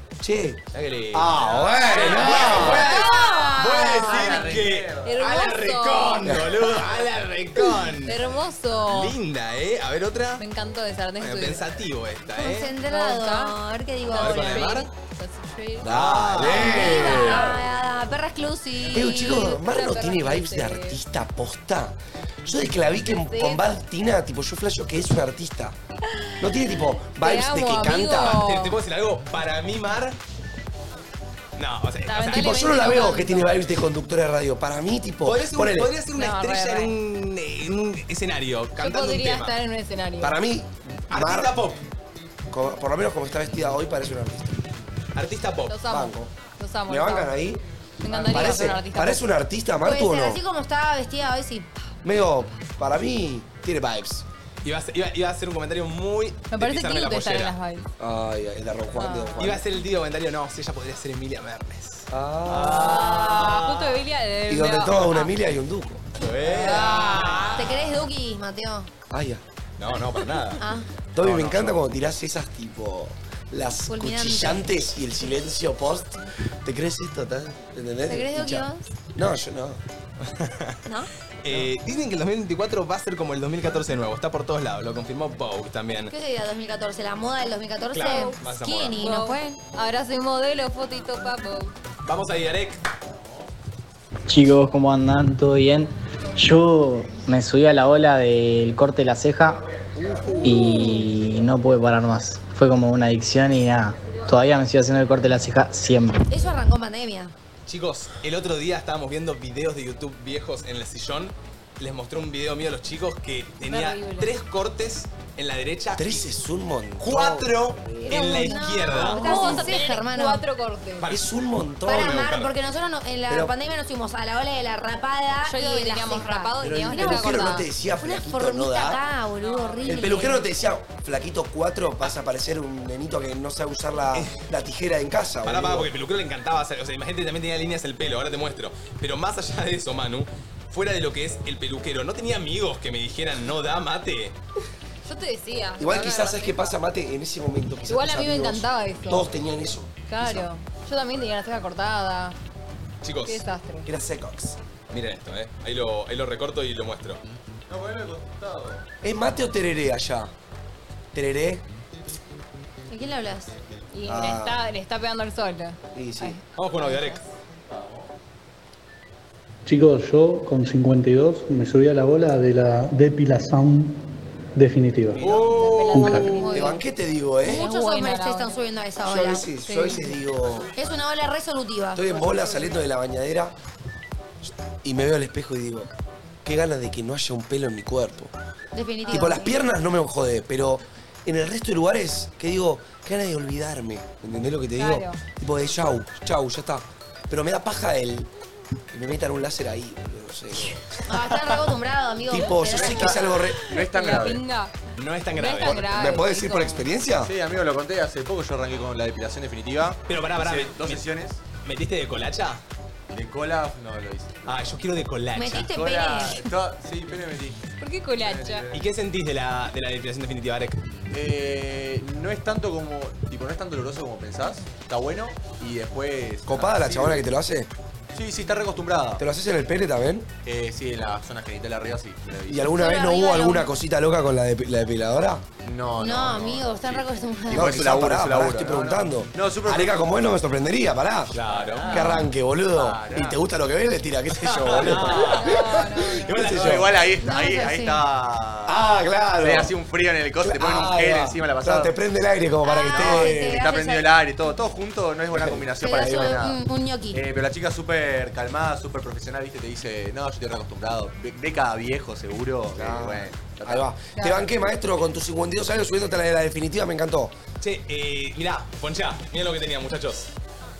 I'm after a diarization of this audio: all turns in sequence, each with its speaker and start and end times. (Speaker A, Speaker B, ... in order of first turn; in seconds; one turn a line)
Speaker A: 0.2-0.6
Speaker B: 0.7-8.2
Speaker A: 1.1-2.9
Speaker C: 2.1-4.6
Speaker D: 2.4-2.7
Speaker D: 3.8-5.2
Speaker E: 5.0-6.3
Speaker A: 6.2-6.8
Speaker E: 8.1-9.2
Speaker B: 8.8-10.4
Speaker E: 10.4-11.6
Speaker B: 11.2-12.7
Speaker C: 12.4-14.9
Speaker E: 12.8-15.9
Speaker B: 14.1-14.9
Speaker A: 15.8-17.5
Speaker B: 15.9-17.5
Speaker C: 16.4-19.6
Speaker A: 18.9-25.8
Speaker E: 18.9-21.0
Speaker E: 23.0-23.7
Speaker E: 26.1-28.7
Speaker A: 26.4-28.4
Speaker B: 28.2-30.2
Speaker B: 31.6-32.7
Speaker E: 32.1-33.5
Speaker A: 32.3-35.9
Speaker B: 35.2-39.6
Speaker E: 36.1-36.9
Speaker E: 38.8-40.4
Speaker A: 40.2-41.5
Speaker B: 41.1-41.8
Speaker A: 42.5-44.7
Speaker B: 45.1-45.8
Speaker E: 45.7-47.3
Speaker A: 45.9-46.3
Speaker A: 46.9-50.4
Speaker E: 48.0-49.3
Speaker C: 49.8-51.9
Speaker A: 52.0-54.2
Speaker B: 54.6-57.5
Speaker E: 56.5-57.9
Speaker A: 58.0-59.6
Speaker E: 58.9-59.4
Speaker B: 59.4-64.0
Speaker A: 62.1-63.2
Speaker E: 62.7-65.3
Speaker A: 64.5-66.0
Speaker B: 66.2-68.0
Speaker E: 66.4-67.6
Speaker C: 67.5-68.9
Speaker A: 69.1-69.4
Speaker B: 69.8-70.6
Speaker C: 70.6-70.9
Speaker A: 71.1-79.8
Speaker B: 71.2-71.8
Speaker C: 73.9-74.7
Speaker C: 78.1-79.0
Speaker B: 80.2-80.8
Speaker B: 81.4-86.1
Speaker C: 86.1-89.6
Speaker B: 87.9-89.0
Speaker E: 88.0-88.3
Speaker E: 89.0-91.7
Speaker B: 92.0-92.8
Speaker F: 94.3-99.6
Speaker F: 100.4-106.2
Speaker C: 106.3-107.3
Speaker B: 107.7-116.3
Speaker E: 113.7-114.3
Speaker A: 115.9-118.3
Speaker B: 117.0-119.7
Speaker C: 118.0-120.4
Speaker E: 118.1-121.1
Speaker A: 118.9-119.2
Speaker A: 121.1-122.3
Speaker C: 121.8-130.5
Speaker B: 121.8-122.5
Speaker A: 123.3-123.5
Speaker E: 125.5-127.7
Speaker A: 126.6-129.0
Speaker E: 129.4-130.3
Speaker A: 129.8-135.9
Speaker B: 135.4-144.3
Speaker E: 145.1-146.8
Speaker A: 145.8-150.5
Speaker E: 147.9-149.3
Speaker E: 150.1-152.3
Speaker B: 153.0-153.4
Speaker E: 153.2-153.9
Speaker A: 153.8-154.6
Speaker B: 154.9-157.2
Speaker D: 157.7-158.8
Speaker A: 159.0-160.3
Speaker A: 161.1-161.6
Speaker C: 162.9-163.5
Speaker E: 163.9-167.3
Speaker A: 164.1-164.6
Speaker A: 165.9-166.4
Speaker B: 166.6-167.2
Speaker D: 167.7-168.1
Speaker G: 169.7-175.2
Speaker B: 175.2-176.4
Speaker E: 175.3-176.8
Speaker G: 175.9-176.3
Speaker C: 176.4-176.8
Speaker A: 176.4-177.7
Speaker C: 177.4-179.5
Speaker E: 177.4-178.6
Speaker A: 179.0-180.7
Speaker E: 179.7-180.2
Speaker C: 180.8-182.1
Speaker A: 181.9-183.6
Speaker E: 182.2-182.7
Speaker A: 184.4-185.9
Speaker A: 186.4-188.3
Speaker C: 188.7-189.6
Speaker E: 189.0-189.4
Speaker A: 189.1-198.3
Speaker E: 194.8-195.2
Speaker A: 198.9-200.8
Speaker C: 201.1-203.4
Speaker A: 202.3-203.7
Speaker D: 202.7-204.4
Speaker E: 203.6-204.7
Speaker B: 205.0-205.9
Speaker E: 205.3-206.8
Speaker A: 205.8-207.3
Speaker D: 207.2-211.4
Speaker B: 210.1-211.1
Speaker B: 211.6-212.6
Speaker D: 213.1-214.6
Speaker B: 214.4-215.7
Speaker C: 215.3-216.5
Speaker D: 215.7-218.9
Speaker E: 217.8-218.7
Speaker B: 218.7-220.8
Speaker D: 221.1-227.3
Speaker A: 226.4-227.7
Speaker D: 228.1-229.2
Speaker A: 229.2-230.3
Speaker D: 230.4-232.8
Speaker A: 232.5-235.4
Speaker C: 232.7-233.7
Speaker D: 235.6-240.2
Speaker C: 235.9-237.9
Speaker A: 237.5-246.9
Speaker B: 241.3-242.1
Speaker D: 241.3-243.4
Speaker B: 244.4-245.5
Speaker D: 244.6-245.4
Speaker E: 245.3-246.3
Speaker B: 246.3-246.9
Speaker D: 246.3-248.8
Speaker C: 247.2-248.0
Speaker A: 248.7-249.7
Speaker D: 249.4-252.0
Speaker A: 250.4-253.5
Speaker C: 252.6-254.1
Speaker D: 252.9-256.6
Speaker A: 255.3-256.3
Speaker C: 255.8-257.2
Speaker D: 257.1-263.9
Speaker A: 262.7-267.4
Speaker E: 264.1-264.4
Speaker B: 267.6-270.3